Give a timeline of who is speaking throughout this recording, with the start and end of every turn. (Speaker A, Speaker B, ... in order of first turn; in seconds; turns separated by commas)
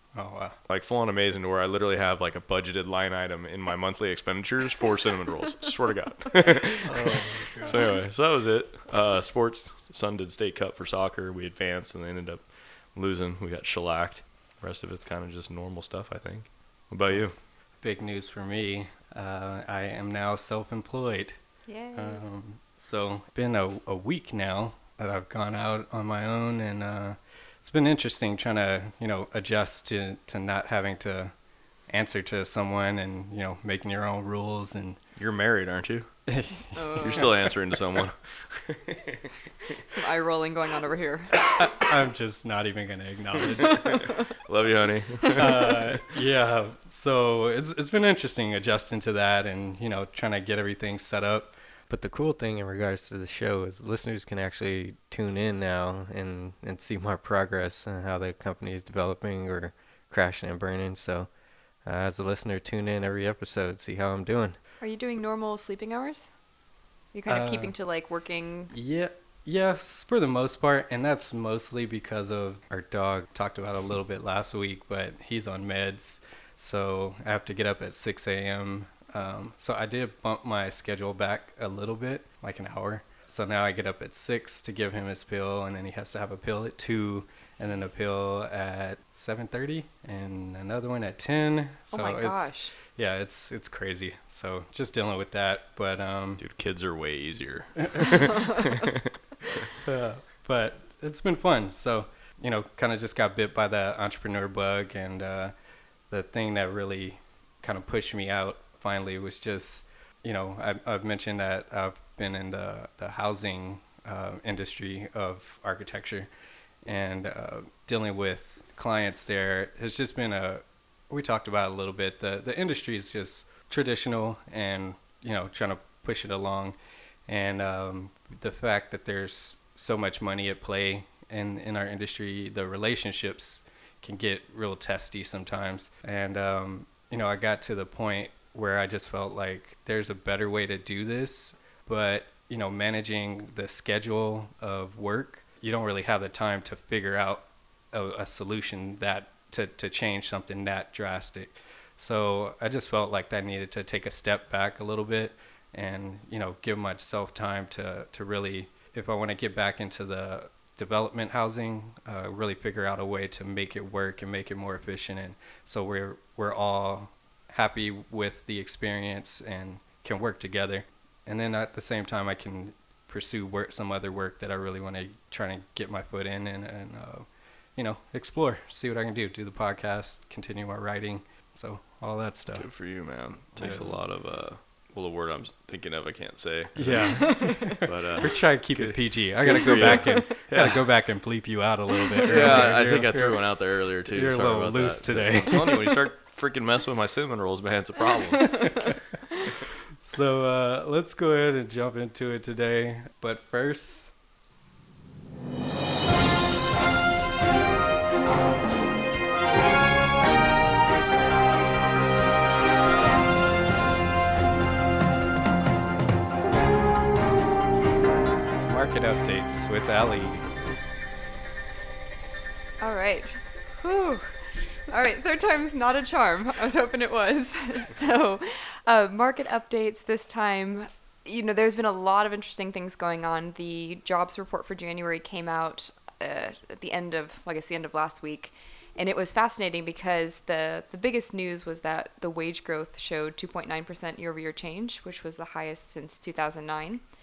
Speaker A: 0.2-0.6, Speaker B: 0.7-17.4, Speaker A: 6.9-7.8, Speaker A: 17.1-21.4, Speaker C: 21.7-22.2, Speaker A: 21.9-31.3, Speaker A: 31.9-35.0, Speaker B: 35.2-36.1, Speaker A: 36.3-37.2, Speaker C: 36.8-37.4, Speaker B: 37.0-39.2, Speaker C: 39.8-41.4, Speaker A: 41.5-44.0, Speaker C: 43.7-44.1, Speaker B: 44.4-46.0, Speaker A: 45.4-51.5, Speaker D: 51.9-61.3, Speaker D: 61.8-64.6, Speaker C: 64.8-66.3, Speaker C: 67.1-68.7, Speaker A: 67.3-67.7, Speaker A: 68.7-96.4, Speaker C: 91.9-92.7, Speaker B: 96.4-99.7, Speaker A: 99.8-105.5, Speaker A: 106.1-116.3, Speaker A: 116.8-126.8, Speaker A: 127.3-182.7, Speaker B: 182.6-190.8, Speaker A: 183.6-183.9, Speaker A: 186.8-193.4, Speaker C: 187.2-187.8, Speaker C: 189.8-190.2, Speaker C: 192.2-192.7, Speaker B: 192.3-198.8, Speaker A: 194.1-195.8, Speaker A: 200.0-204.1, Speaker A: 218.7-220.5, Speaker C: 222.8-247.0